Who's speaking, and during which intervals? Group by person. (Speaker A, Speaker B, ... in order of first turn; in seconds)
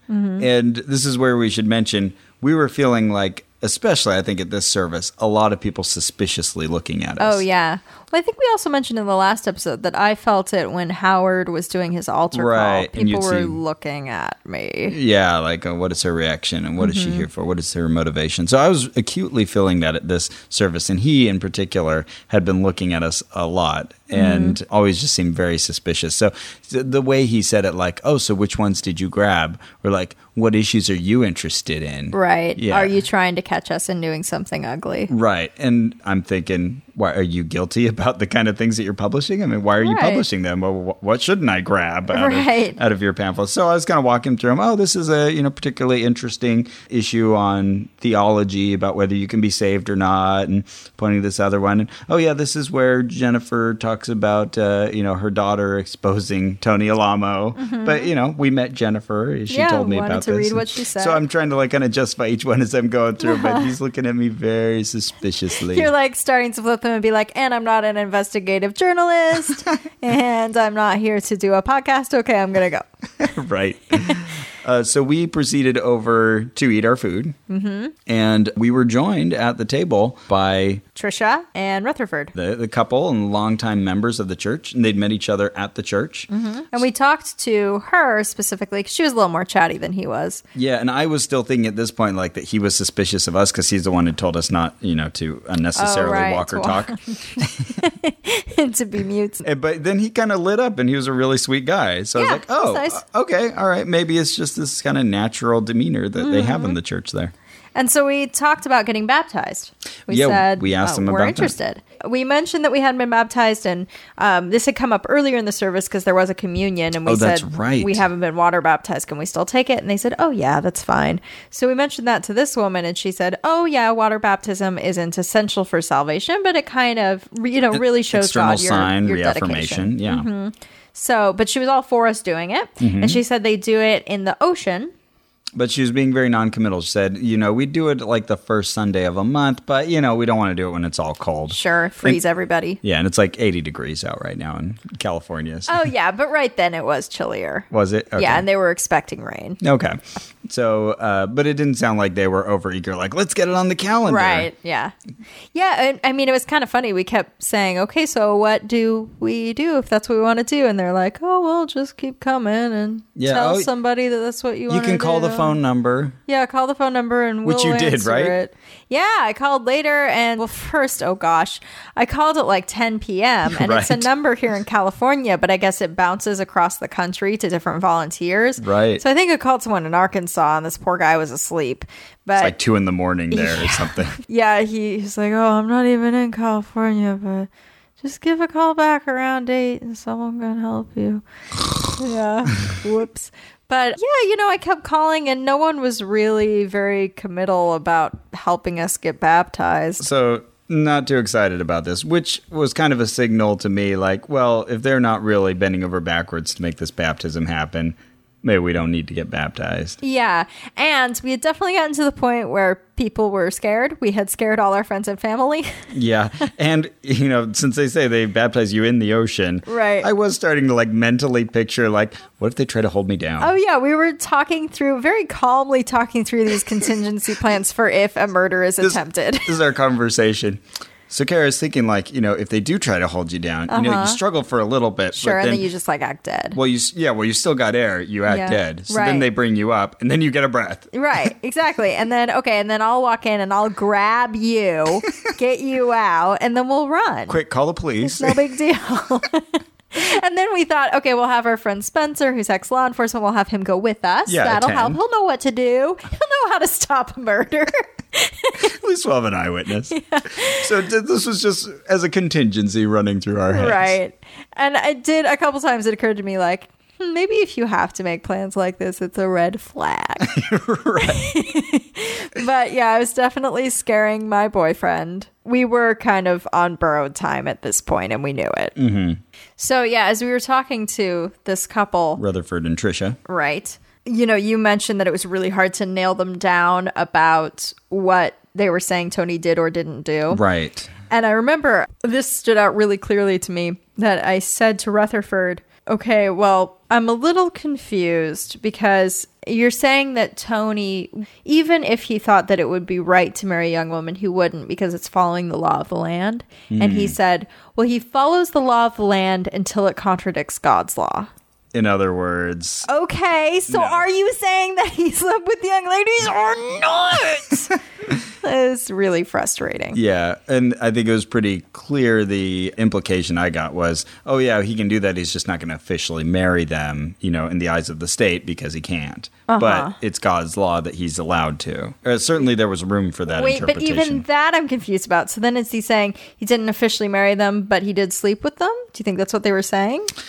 Speaker A: 0.1-0.5, 7.2-15.0, 16.8-17.3, 24.1-24.6, 32.1-35.1, 39.8-40.2, 42.1-42.8, 57.6-58.1, 59.5-61.2, 63.2-63.7, 65.7-72.9, 77.5-77.9, 81.0-82.3, 86.3-90.4, 95.8-99.5, 102.2-103.0, 106.2-106.8, 107.8-134.9, 141.5-142.8, 145.7-149.6, 154.1-154.9, 155.5-165.6, 166.3-182.6, 183.3-187.5, 188.0-191.2, 191.9-200.0, 210.0-215.7, 219.7-220.1, 223.4-229.5, 233.7-234.2, 235.2-236.6, 238.3-239.3, 240.9-247.4, 248.1-258.6, 259.9-260.6, 263.5-270.4, 271.0-278.8, 279.6-282.2, 283.3-290.4, 291.1-311.3, 312.9-317.7, 318.4-320.0, 329.5-329.9, 333.3-340.1
Speaker B: 0.4-7.5, 12.3-13.6, 14.9-33.0, 35.1-65.9, 73.2-77.4, 78.1-80.8, 82.3-86.8, 90.5-97.7, 99.4-107.3, 110.1-111.5, 117.1-118.0, 127.7-130.3, 132.8-133.2, 135.6-142.2, 142.8-145.9, 147.7-148.4, 149.6-154.5, 163.2-163.7, 164.7-166.2, 167.4-168.4, 173.5-174.1, 178.6-179.0, 182.4-184.2, 200.0-210.0, 215.9-223.5, 228.8-235.7, 236.5-240.9, 247.3-248.4, 254.3-255.0, 258.6-264.0, 270.2-271.2, 278.8-279.2, 282.2-283.2, 290.3-290.9, 306.7-307.1, 311.7-312.9, 313.7-314.1, 319.9-334.2